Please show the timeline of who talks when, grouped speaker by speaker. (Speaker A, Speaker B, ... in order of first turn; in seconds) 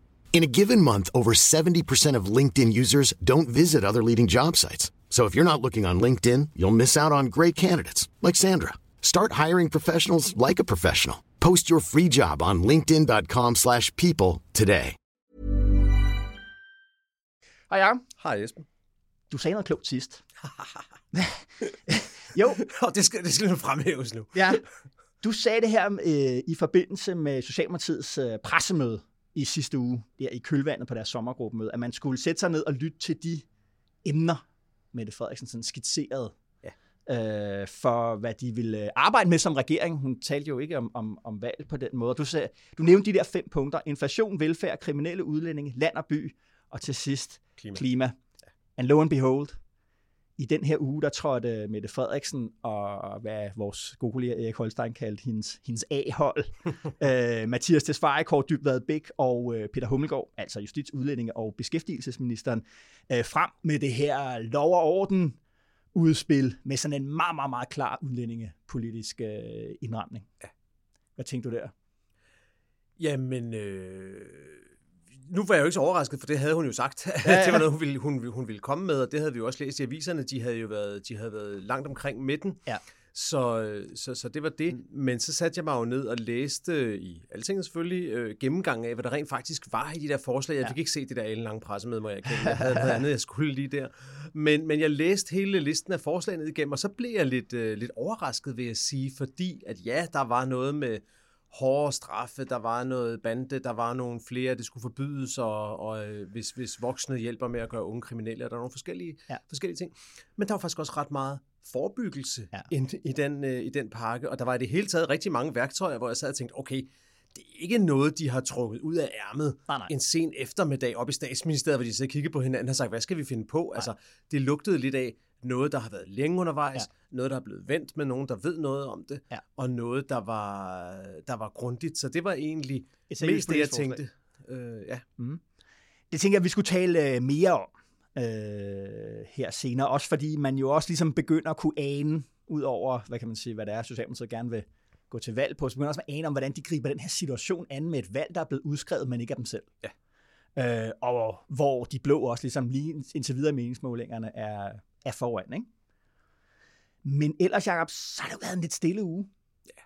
Speaker A: 0.3-14.9
Speaker B: 17.7-18.0, 19.3-20.2, 21.1-22.6, 24.3-24.6, 25.2-33.5, 34.0-36.4, 37.0-48.2, 48.8-49.6, 50.4-65.4, 65.9-70.3, 71.2-71.7, 77.2-77.7, 92.4-93.0, 133.1-134.0, 136.1-149.7, 150.5-155.7, 157.0-159.3
Speaker C: 18.2-18.6, 22.4-24.6, 73.0-82.6, 83.1-135.0